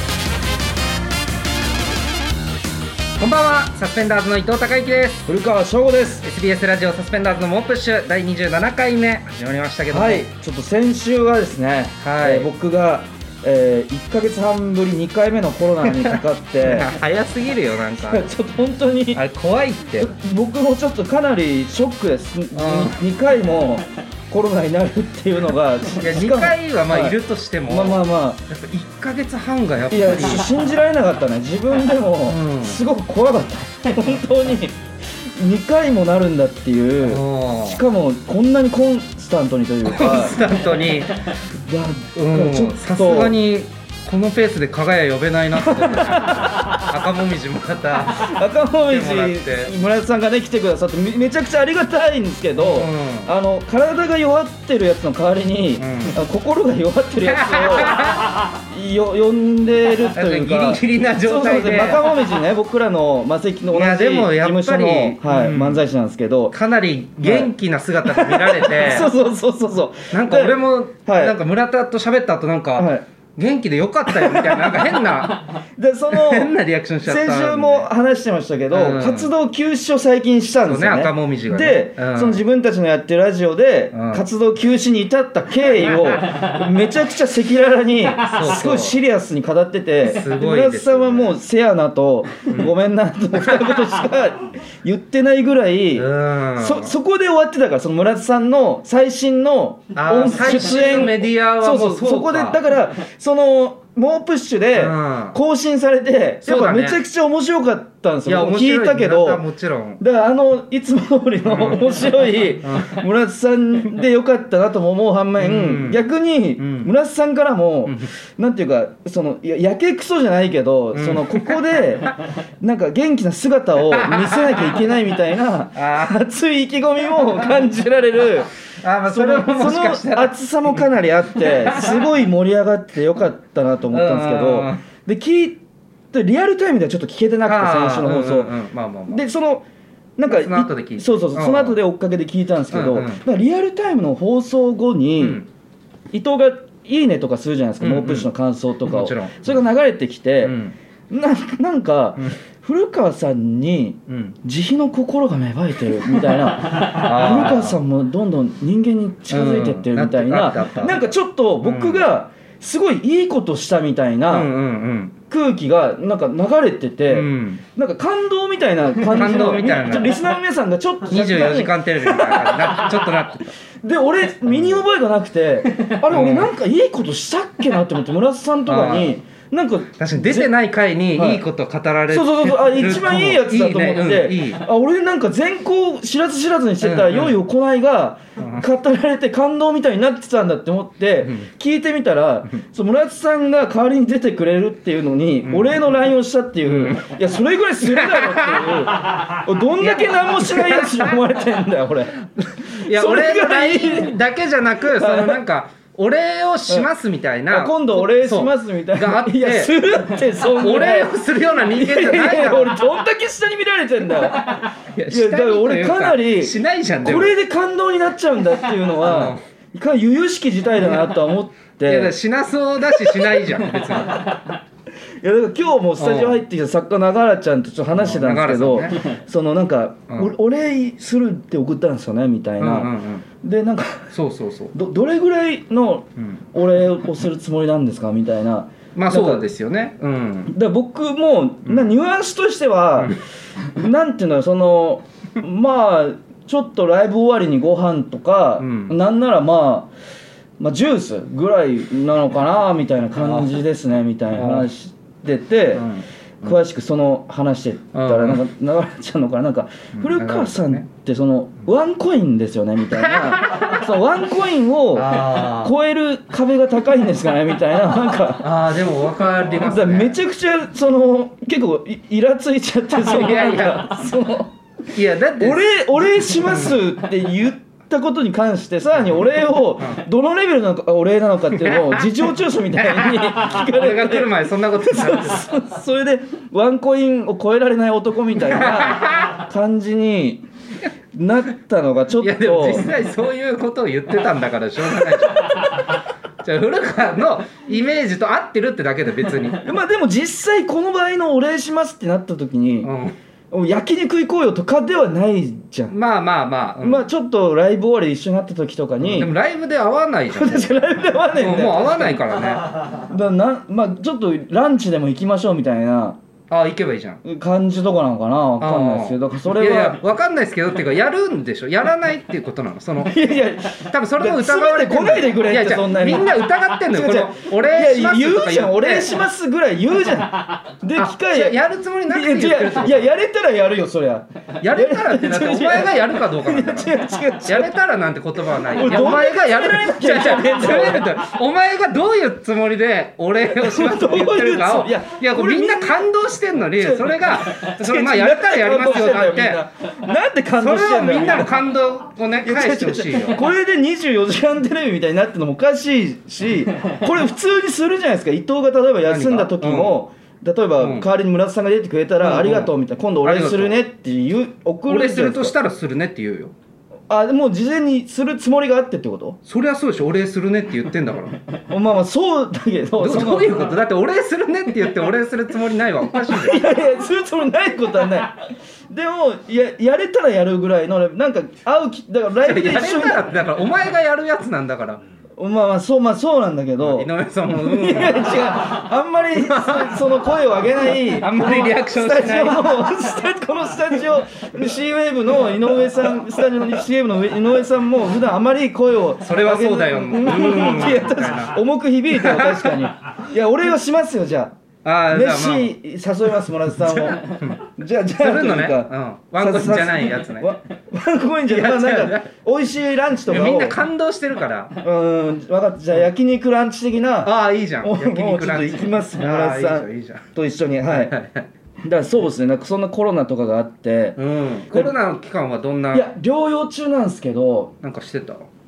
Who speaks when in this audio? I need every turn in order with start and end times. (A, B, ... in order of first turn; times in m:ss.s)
0:03.2-0:05.2 A
0:05.3-0:06.2 B
0:06.2-0:10.2 A
0:09.9-0:16.9 B
0:12.0-0:12.5 A
0:15.9-0:18.2 A
0:18.0-0:19.2 B
0:19.1-0:20.1 A
0:20.0-0:28.4 B
0:22.5-0:23.0 A
0:26.0-0:30.6 A
0:29.9-0:40.4 B
0:32.2-0:32.8 A
0:37.0-0:37.8 A
0:39.8-0:41.2 A
0:41.6-0:43.4 B
0:42.1-0:48.3 A
0:45.6-0:46.9 B
0:48.1-1:06.5 B
0:48.9-0:49.7 A
0:52.6-0:53.3 A
0:55.8-0:56.2 A
0:57.2-0:58.5 A
1:00.1-1:02.1 A
1:03.7-1:05.8 A
1:06.5-1:09.1 A
1:07.2-1:07.5 B
1:08.0-1:11.4 B
1:10.1-1:17.9 A
1:12.8-1:13.0 B
1:14.1-1:14.9 B
1:15.8-1:16.5 B
1:17.0-1:49.4 B
1:18.7-1:19.3 A
1:20.6-1:22.4 A
1:23.9-1:24.2 A
1:28.3-1:29.0 A
1:30.1-1:31.4 A
1:35.9-1:36.9 A
1:39.9-1:42.6 A
1:44.7-1:45.4 A
1:46.4-1:47.0 A
1:48.2-1:50.0 A
1:50.0-2:08.5 B
1:51.5-1:51.9 A
1:52.6-1:53.0 A
1:55.4-1:56.0 A
1:56.6-1:56.9 A
2:00.9-2:01.6 A
2:03.8-2:04.8 A
2:05.8-2:06.2 A
2:08.8-2:10.8 A
2:09.1-2:15.6 B
2:11.4-2:12.0 A
2:13.9-2:14.8 A
2:16.1-2:18.5 B
2:17.4-2:19.2 A
2:19.1-2:25.4 B
2:20.3-2:21.8 A
2:22.7-2:23.2 A
2:25.2-2:25.5 A
2:26.1-2:30.6 B
2:27.8-2:28.3 A
2:28.8-2:29.6 A
2:30.4-2:30.8 A
2:31.1-2:44.5 B
2:34.1-2:34.3 A
2:36.7-2:37.8 A
2:39.3-2:41.0 A
2:41.6-2:42.0 A
2:44.3-2:45.1 A
2:45.3-2:53.0 B
2:47.1-2:47.6 A
2:49.0-2:50.2 A
2:51.1-2:53.5 A
2:53.8-3:00.5 B
2:54.5-2:54.8 A
2:56.1-2:56.5 A
2:58.6-2:59.2 A
3:00.0-3:04.6 A
3:01.1-3:01.4 B
3:02.1-3:24.2 B
3:06.8-3:07.4 A
3:15.4-3:15.8 A
3:16.6-3:17.1 A
3:17.8-3:19.1 A
3:19.8-3:21.2 A
3:22.6-3:29.8 A
3:24.9-3:25.4 B
3:27.5-3:42.1 B
3:30.4-3:32.8 A
3:34.9-3:37.3 A
3:39.0-3:39.4 A
3:41.8-3:44.4 A
3:43.0-3:43.5 B
3:45.2-3:54.1 B
3:46.0-3:46.4 A
3:47.9-3:49.1 A
3:52.6-3:53.2 A
3:54.1-3:54.7 A
3:54.7-3:59.4 B
3:58.9-4:00.5 A
4:00.5-4:09.9 B
4:08.6-4:09.0 A
4:10.6-4:15.8 B
4:13.2-4:13.5 A
4:14.3-4:14.7 A
4:15.8-4:16.6 A
4:16.4-4:28.5 B
4:17.9-4:18.4 A
4:20.0-4:20.8 A
4:23.0-4:23.8 A
4:24.9-4:25.7 A
4:28.4-4:30.2 A
4:29.6-4:34.5 B
4:33.0-4:33.9 A
4:34.9-4:36.8 A
4:35.4-4:50.4 B
4:41.5-4:42.2 A
4:42.8-4:45.6 A
4:48.4-4:49.4 A
4:51.1-4:52.9 B
4:52.2-4:59.6 A
4:59.6-5:02.9 B
5:02.8-5:03.1 A
5:03.5-5:05.9 B
5:05.9-5:07.0 A
5:06.8-5:09.3 B
5:09.0-5:10.7 A
5:10.3-5:12.3 B
5:11.4-5:12.8 A
5:12.9-5:16.2 B
5:16.5-5:17.2 A
5:17.2-5:20.0 B
5:18.6-5:23.2 A
5:23.0-5:37.7 B
5:23.8-5:29.2 A
5:31.0-5:33.1 A
5:34.6-5:49.6 A
5:38.7-5:41.2 B
5:43.4-5:46.1 B
5:46.7-5:51.6 B
5:50.5-5:53.5 A
5:52.4-6:05.5 B
5:59.0-6:00.0 A
6:00.8-6:01.1 A
6:02.2-6:03.8 A
6:04.9-6:06.5 A
6:07.1-6:09.4 B
6:09.4-6:11.4 A
6:11.7-6:13.7 B
6:13.0-6:16.6 A
6:16.2-6:23.3 B
6:22.4-6:25.0 A
6:25.4-6:44.5 B
6:26.8-6:28.8 A
6:29.4-6:30.0 A
6:31.1-6:32.8 A
6:39.2-6:41.6 A
6:42.1-6:42.8 A
6:44.8-6:45.7 A
6:45.1-6:53.8 B
6:46.8-6:50.5 A
6:51.5-6:52.3 A
6:53.3-6:54.8 A
6:54.8-7:01.1 B
6:57.2-7:00.2 A
7:00.9-7:01.5 A
7:01.8-7:04.2 B
7:04.2-7:06.1 A
7:05.9-7:07.7 B
7:07.8-7:08.5 A